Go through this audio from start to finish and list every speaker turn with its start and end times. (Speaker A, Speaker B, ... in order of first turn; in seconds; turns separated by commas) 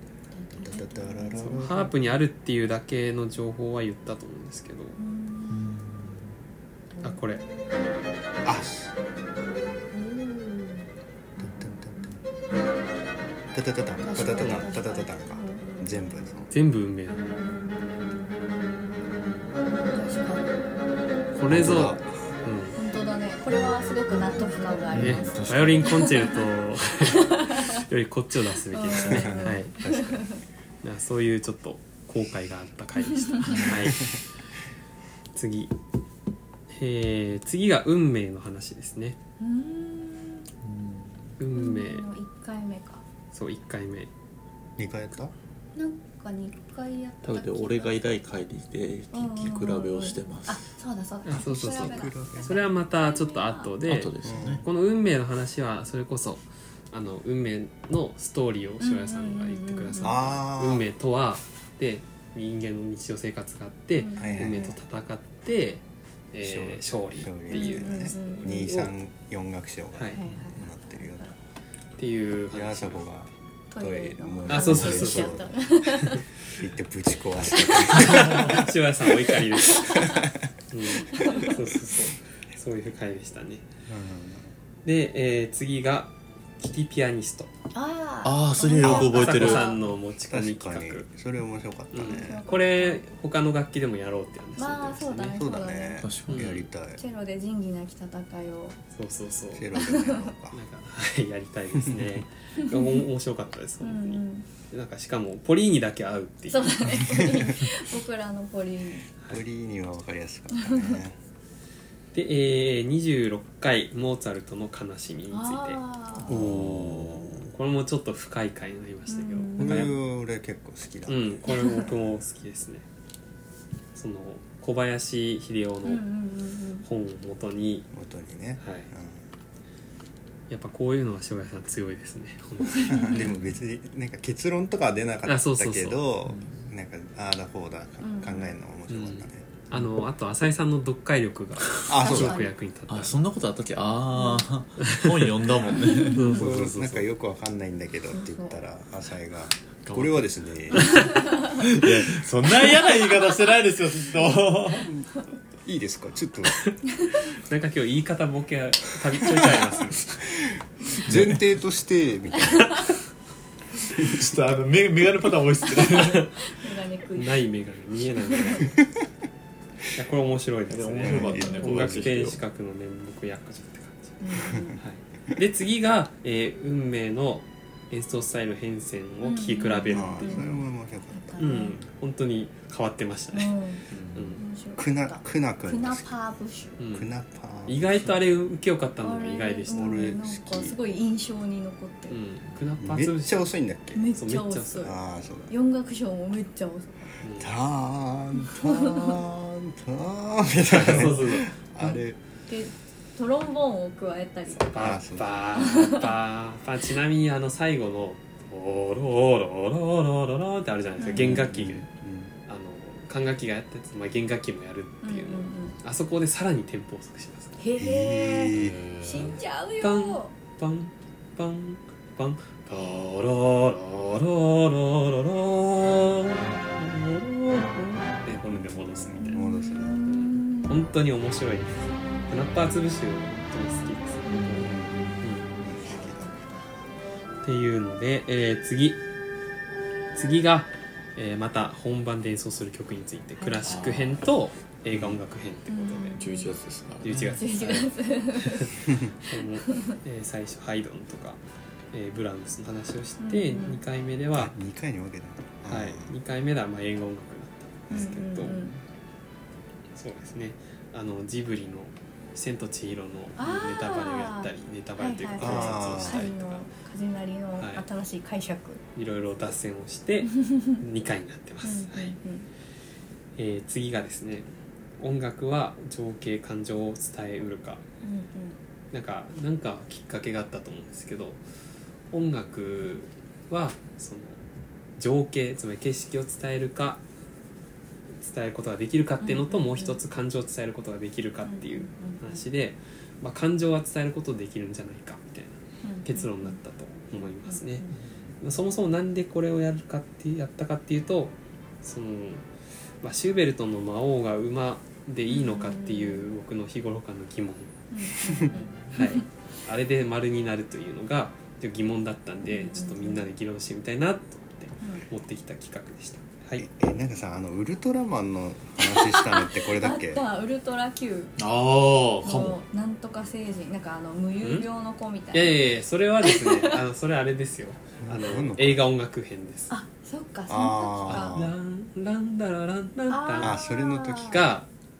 Speaker A: 0.3-1.9, Speaker B: 0.6-1.9, Speaker C: 1.4-5.0, Speaker A: 5.0-5.7, Speaker D: 5.5-6.3, Speaker A: 6.9-7.7, Speaker C: 7.0-7.4, Speaker B: 8.4-8.9, Speaker A: 9.9-12.1, Speaker B: 11.4-12.2, Speaker B: 13.5-16.5, Speaker A: 14.0-16.1, Speaker C: 14.4-14.7, Speaker C: 16.5-17.4, Speaker A: 17.4-17.7, Speaker A: 19.6-20.6, Speaker C: 21.3-22.8, Speaker B: 21.5-22.1, Speaker A: 22.8-26.3, Speaker D: 24.9-26.0, Speaker C: 24.9-29.7, Speaker A: 27.1-27.8, Speaker A: 28.7-30.4, Speaker B: 28.9-30.2, Speaker C: 30.8-34.2, Speaker A: 33.1-33.7, Speaker B: 33.5-34.2, Speaker C: 35.3-35.7, Speaker C: 36.7-39.2, Speaker A: 39.4-40.5, Speaker D: 40.6-41.3, Speaker C: 41.4-42.0, Speaker A: 41.5-43.0, Speaker C: 43.3-44.1, Speaker B: 44.8-45.3, Speaker A: 45.7-48.0, Speaker D: 47.2-50.6, Speaker A: 49.1-53.7, Speaker C: 51.2-68.5, Speaker B: 51.3-52.6, Speaker D: 53.8-54.6, Speaker B: 54.2-54.6, Speaker A: 58.8-60.1, Speaker B: 60.0-60.9, Speaker A: 64.0-64.8, Speaker B: 64.2-64.7, Speaker B: 66.4-71.3, Speaker A: 67.5-68.9, Speaker A: 70.1-71.3, Speaker C: 72.0-73.2, Speaker B: 72.5-78.7, Speaker A: 73.7-76.2, Speaker C: 74.5-75.4, Speaker C: 76.0-76.6, Speaker A: 77.6-77.9, Speaker C: 77.7-80.2, Speaker D: 78.1-78.5, Speaker B: 79.3-80.3, Speaker C: 80.7-83.6, Speaker A: 81.1-81.5, Speaker B: 81.2-81.5, Speaker B: 83.9-84.5, Speaker C: 84.8-87.5, Speaker A: 87.7-89.8, Speaker D: 88.2-89.6, Speaker C: 88.8-91.1, Speaker B: 90.3-92.4, Speaker C: 91.9-95.1, Speaker A: 92.0-93.0, Speaker A: 94.6-96.0, Speaker B: 95.0-97.0, Speaker D: 96.0-96.6, Speaker C: 96.3-96.6, Speaker A: 97.0-98.8, Speaker C: 98.9-99.7, Speaker B: 99.5-100.6, Speaker A: 99.8-100.3, Speaker C: 100.5-106.9, Speaker B: 101.7-102.2, Speaker A: 102.6-103.0, Speaker A: 103.8-104.5, Speaker A: 106.5-109.1, Speaker B: 109.3-111.2, Speaker A: 110.5-111.0, Speaker C: 112.1-119.9, Speaker A: 115.3-116.3, Speaker B: 116.2-117.5, Speaker D: 116.3-117.1, Speaker A: 119.1-120.0, Speaker B: 119.6-121.4, Speaker C: 121.1-122.8, Speaker A: 121.5-121.9, Speaker C: 123.9-126.0, Speaker A: 125.8-126.9, Speaker C: 126.8-127.9, Speaker B: 127.9-129.2, Speaker C: 128.6-128.9, Speaker C: 130.5-133.3, Speaker B: 132.7-139.5, Speaker A: 132.9-133.2, Speaker C: 135.2-136.0, Speaker D: 136.2-136.7, Speaker A: 138.0-138.5, Speaker C: 138.9-143.2, Speaker B: 141.9-142.4, Speaker A: 141.9-142.5, Speaker D: 142.9-146.4, Speaker A: 144.1-144.4, Speaker C: 144.8-147.1, Speaker A: 145.6-146.5, Speaker B: 146.2-151.2, Speaker A: 148.1-148.6, Speaker D: 149.8-154.9, Speaker C: 150.9-151.2, Speaker B: 155.6-156.6, Speaker C: 156.5-160.3, Speaker B: 160.4-162.8, Speaker D: 161.1-161.4, Speaker D: 163.9-166.2, Speaker C: 165.9-166.3, Speaker A: 166.4-167.4, Speaker C: 167.2-168.8, Speaker A: 168.3-168.6, Speaker C: 169.9-174.2, Speaker D: 170.7-172.4, Speaker B: 171.0-172.1, Speaker A: 171.3-171.6, Speaker A: 174.2-174.8, Speaker B: 174.4-174.8, Speaker C: 174.8-180.5, Speaker A: 179.2-180.5, Speaker B: 179.8-181.3, Speaker A: 181.1-181.8, Speaker C: 181.4-184.4, Speaker A: 183.3-183.8, Speaker D: 183.9-184.4, Speaker A: 184.3-186.8, Speaker B: 184.8-186.1, Speaker C: 186.8-187.1, Speaker B: 186.8-188.2, Speaker C: 187.7-190.1, Speaker A: 189.0-192.2, Speaker B: 189.7-190.8, Speaker C: 192.1-193.5, Speaker B: 192.8-194.0, Speaker A: 193.9-195.0, Speaker C: 194.2-194.9, Speaker B: 194.8-195.5, Speaker A: 195.5-197.2, Speaker C: 197.2-197.5, Speaker B: 197.4-202.2, Speaker A: 198.4-199.2, Speaker C: 200.7-201.5, Speaker A: 202.5-204.7, Speaker C: 204.5-211.8, Speaker B: 204.8-205.4, Speaker A: 205.6-206.1, Speaker A: 211.0-211.3, Speaker B: 211.1-212.3, Speaker D: 211.3-211.6, Speaker C: 212.5-217.6, Speaker A: 215.0-215.7, Speaker A: 217.6-220.3, Speaker B: 217.8-218.8, Speaker D: 218.5-219.4, Speaker C: 219.8-229.4, Speaker B: 228.5-230.0, Speaker A: 229.2-230.8, Speaker C: 230.1-235.6, Speaker D: 234.3-234.6, Speaker B: 234.5-236.4, Speaker A: 235.8-236.7, Speaker C: 237.4-239.0, Speaker C: 240.1-246.2, Speaker A: 243.4-243.7, Speaker D: 243.6-244.2, Speaker B: 244.9-245.2, Speaker A: 245.7-246.5, Speaker D: 246.2-247.4, Speaker C: 247.0-251.4, Speaker A: 247.4-248.8, Speaker B: 248.8-249.1, Speaker A: 249.7-249.9, Speaker C: 251.9-254.5, Speaker A: 253.2-253.8, Speaker B: 254.3-256.1, Speaker C: 255.7-258.6, Speaker B: 257.9-258.2, Speaker A: 257.9-258.8, Speaker C: 259.9-266.6, Speaker A: 263.4-268.8, Speaker B: 265.4-266.3, Speaker C: 267.6-267.8, Speaker C: 268.9-272.1, Speaker A: 270.3-270.8, Speaker A: 271.6-272.5, Speaker C: 273.4-274.5, Speaker C: 275.0-277.8, Speaker A: 278.0-278.6, Speaker C: 278.9-281.4, Speaker C: 282.1-284.4, Speaker C: 285.0-287.0, Speaker C: 288.2-297.9, Speaker A: 289.2-290.0, Speaker A: 291.4-292.4, Speaker A: 295.8-296.6, Speaker A: 297.5-297.9, Speaker C: 298.4-302.4, Speaker C: 303.0-307.7, Speaker A: 305.3-306.3, Speaker A: 307.9-309.2, Speaker C: 308.9-316.6, Speaker A: 312.4-313.2, Speaker B: 316.6-320.2, Speaker A: 318.8-321.3, Speaker D: 321.4-322.6, Speaker A: 322.2-325.6, Speaker C: 324.4-324.7, Speaker C: 325.3-329.7, Speaker A: 326.2-326.8, Speaker B: 328.0-328.9, Speaker A: 329.7-331.4, Speaker B: 330.5-331.5, Speaker C: 331.1-333.6, Speaker A: 333.1-334.4, Speaker B: 333.4-334.6, Speaker C: 334.3-334.7